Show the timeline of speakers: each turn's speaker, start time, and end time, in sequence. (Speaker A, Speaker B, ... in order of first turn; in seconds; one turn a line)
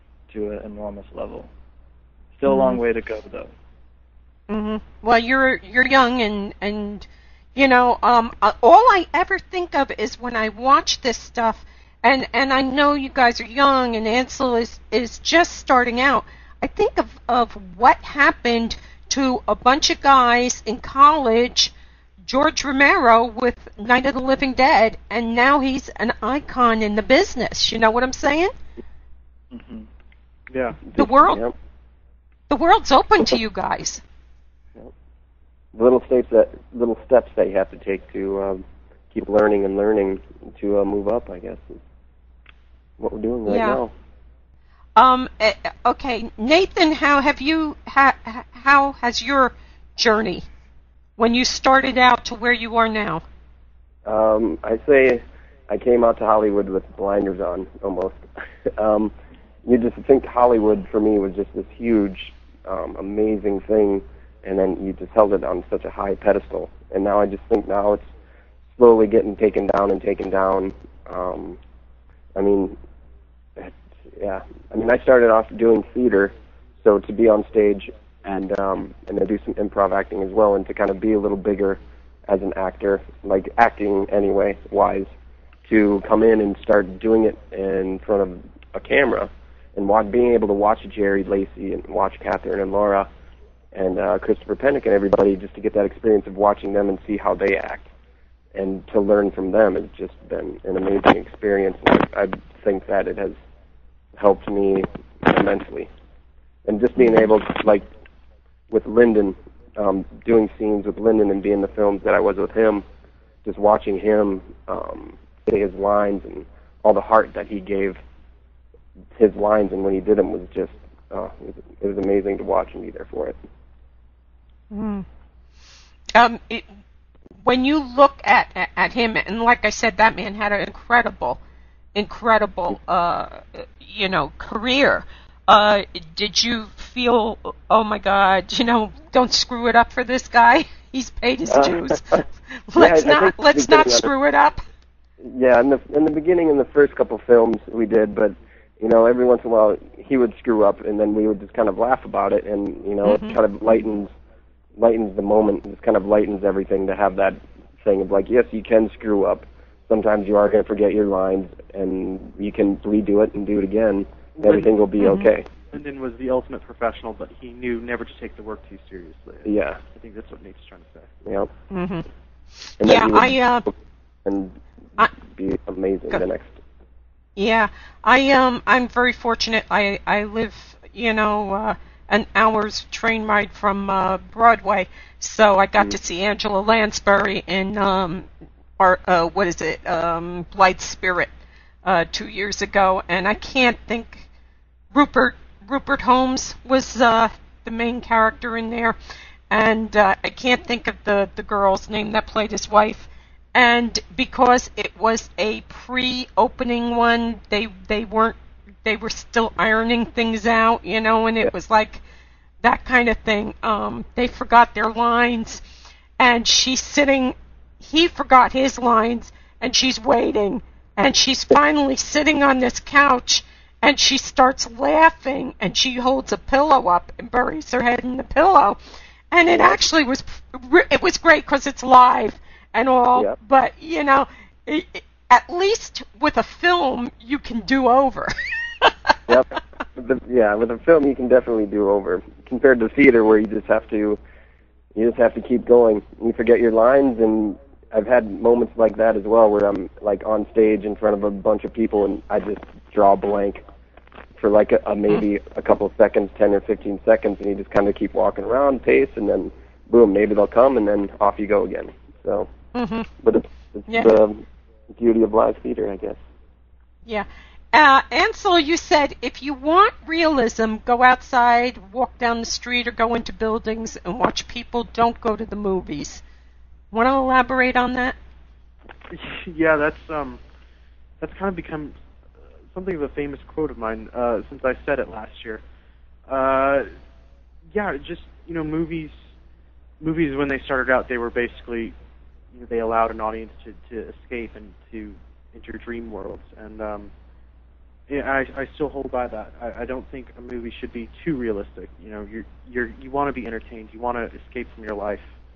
Speaker A: 0.3-1.5
Speaker A: 2.3-3.5
Speaker B: 2.5-2.8
Speaker B: 4.5-21.7
Speaker B: 22.2-28.5
Speaker A: 29.5-29.9
Speaker C: 30.5-30.8
Speaker D: 30.9-31.5
Speaker B: 30.9-31.4
Speaker B: 32.5-34.0
Speaker D: 35.7-41.8
Speaker D: 43.0-43.9
Speaker B: 43.5-43.8
Speaker B: 45.0-50.4
Speaker B: 51.2-53.2
Speaker D: 54.0-59.1
Speaker D: 59.6-68.1
Speaker D: 68.8-71.6
Speaker D: 72.3-72.8
Speaker D: 73.6-85.1
Speaker D: 85.6-93.1
Speaker D: 93.7-97.9
Speaker D: 98.5-103.3
Speaker D: 104.2-105.9
Speaker D: 106.7-107.9
Speaker D: 108.7-112.8
Speaker D: 113.4-118.0
Speaker D: 119.1-123.3
Speaker B: 124.7-125.0
Speaker B: 126.2-126.7
Speaker B: 127.4-131.4
Speaker B: 131.9-144.6
Speaker D: 141.5-142.2
Speaker D: 142.7-144.1
Speaker D: 145.2-154.1
Speaker B: 153.0-153.4
Speaker D: 154.8-165.5
Speaker C: 164.4-164.7
Speaker B: 165.0-165.3
Speaker C: 165.7-171.1
Speaker D: 169.4-169.8
Speaker D: 171.2-171.5
Speaker B: 171.7-172.1
Speaker B: 172.7-173.7
Speaker D: 172.8-173.7
Speaker D: 174.2-176.6
Speaker B: 177.4-188.3
Speaker B: 188.8-191.3
Speaker B: 191.8-194.2
Speaker B: 194.9-198.9
Speaker B: 199.5-212.0
Speaker B: 212.6-215.6
Speaker B: 216.2-228.8
Speaker B: 229.3-239.1
Speaker D: 229.5-229.8
Speaker D: 239.3-244.2
Speaker D: 244.9-253.6
Speaker D: 254.4-262.5
Speaker B: 262.7-263.1
Speaker D: 263.2-266.2
Speaker B: 263.9-264.2
Speaker B: 267.1-276.2
Speaker B: 276.9-278.1
Speaker C: 279.1-280.4
Speaker C: 281.2-281.9
Speaker C: 282.7-285.6
Speaker C: 286.3-286.9
Speaker C: 287.7-289.1
Speaker C: 290.0-291.9
Speaker C: 292.5-297.1
Speaker C: 298.1-305.2